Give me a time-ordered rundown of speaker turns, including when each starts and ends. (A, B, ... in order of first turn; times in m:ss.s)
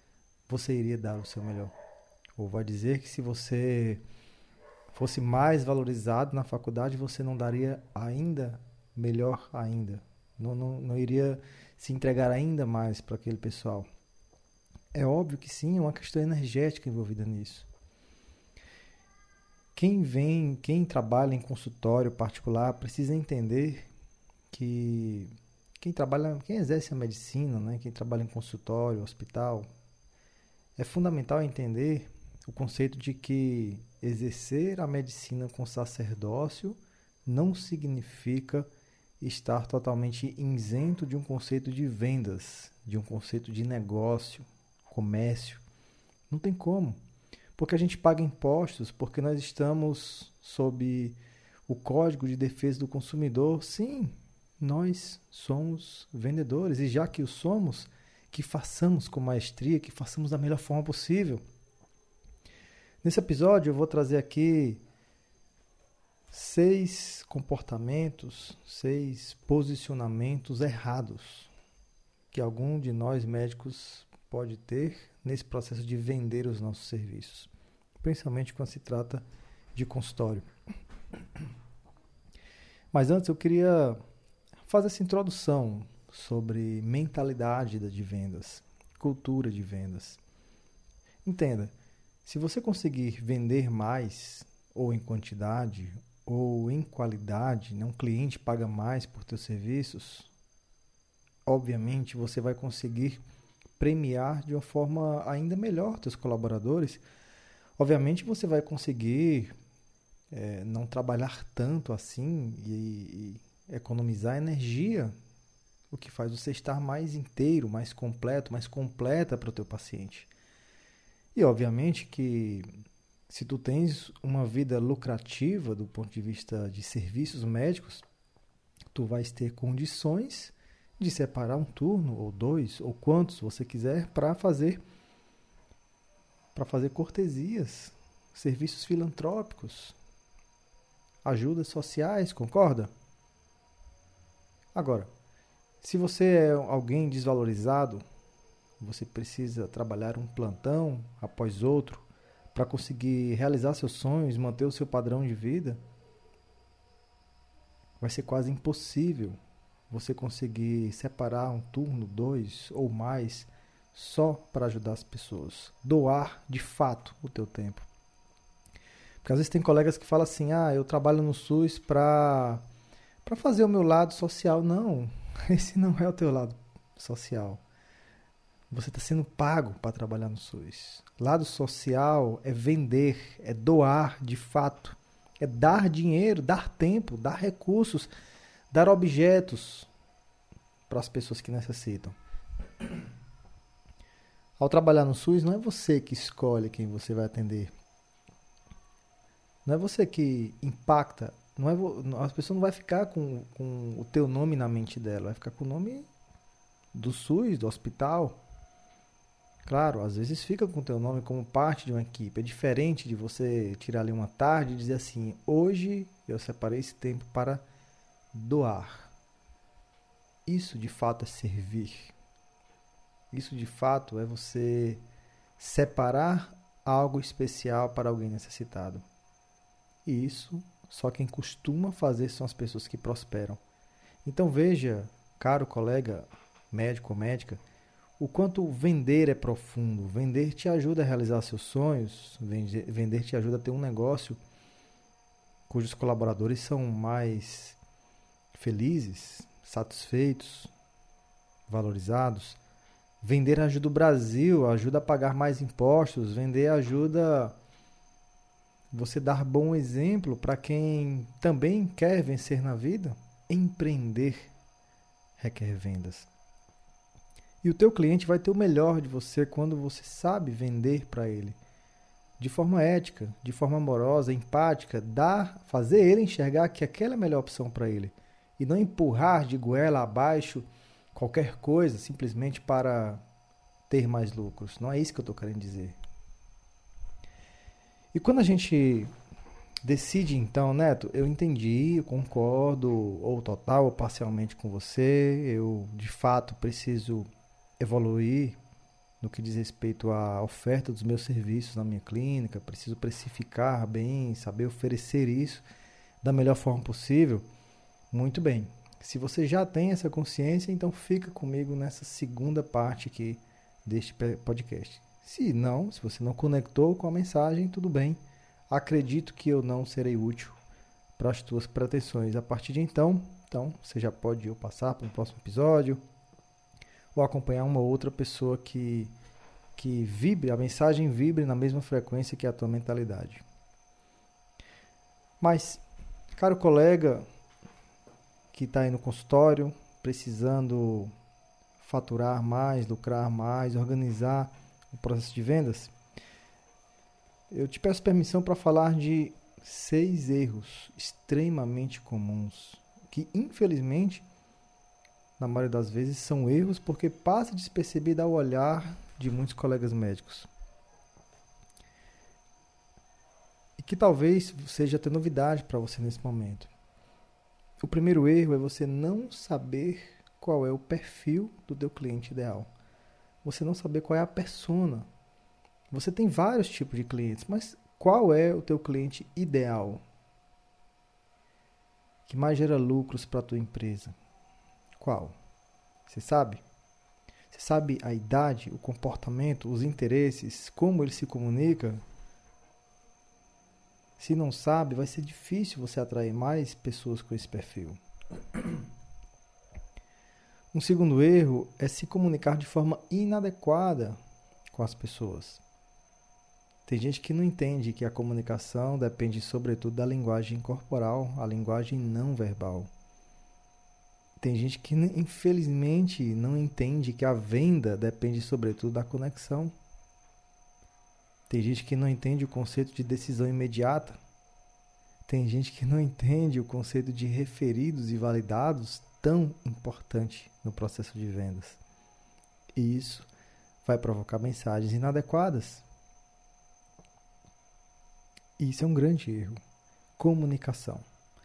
0:00.5-0:01.7 A
0:02.4-0:04.0 A
0:04.9-0:13.9 A
0:14.9-0:17.7 A
0:19.7-0:23.9 A
0:24.5-0:29.7 A
0:30.8-0:38.7 A
0:39.2-0:45.6 A
0:46.3-0:47.0 A
0:47.6-1:01.4 A
1:03.0-1:04.8 A
1:06.3-1:11.5 A
1:12.3-1:17.5 A
1:18.0-1:20.5 A
1:22.9-1:24.0 A
1:24.6-1:30.2 A
1:31.2-1:31.7 A
1:32.2-1:40.3 A
1:41.4-1:43.2 A
1:43.8-1:47.0 A
1:47.8-1:49.5 A
1:50.3-1:55.1 A
1:55.9-2:00.3 A
2:01.3-2:02.6 A
2:03.3-2:08.0 A
2:08.9-2:14.8 A
2:16.5-2:20.0 A
2:21.2-2:22.9 A
2:24.7-2:25.1 A
2:25.8-2:28.0 A
2:28.8-2:35.8 A
2:38.0-2:39.4 A
2:39.9-2:47.9 A
2:49.2-2:52.6 A
2:53.2-2:57.6 A
2:58.7-3:08.1 A
3:08.7-3:09.9 A
3:10.9-3:12.2 A
3:14.6-3:17.7 A
3:19.6-3:26.1 A
3:26.9-3:28.4 A
3:29.6-3:37.6 A
3:38.3-3:39.1 A
3:40.4-3:42.1 A
3:43.3-3:45.0 A
3:45.6-3:49.0 A
3:50.0-3:53.6 A
3:54.2-3:57.6 A
3:58.2-4:04.4 A
4:05.7-4:07.8 A
4:08.5-4:10.7 A
4:11.7-4:12.6 A
4:13.2-4:17.6 A
4:18.9-4:24.5 A
4:25.4-4:26.3 A
4:27.6-4:31.6 A
4:32.4-4:43.2 A
4:43.9-4:46.0 A
4:48.1-4:49.1 A
4:49.8-4:57.3 A
4:57.8-4:58.6 A
4:59.2-5:05.6 A
5:06.2-5:07.4 A
5:08.1-5:20.6 A
5:21.2-5:26.0 A
5:27.1-5:29.1 A
5:29.8-5:33.4 A
5:35.4-5:35.8 A
5:36.4-5:37.2 A
5:38.5-5:41.1 A
5:41.8-5:45.9 A
5:47.5-5:54.2 A
5:55.4-6:00.5 A
6:03.8-6:06.7 A
6:07.8-6:12.7 A
6:13.4-6:15.1 A
6:15.9-6:20.0 A
6:22.2-6:24.2 A
6:25.0-6:25.3 A
6:26.1-6:26.6 A
6:27.5-6:32.0 A
6:34.2-6:38.0 A
6:40.7-6:44.2 A
6:44.7-6:45.6 A
6:46.8-6:52.9 A
6:54.4-6:59.7 A
7:01.5-7:04.2 A
7:05.2-7:11.8 A
7:12.8-7:13.3 A
7:13.8-7:15.8 A
7:18.6-7:19.6 A
7:20.2-7:21.0 A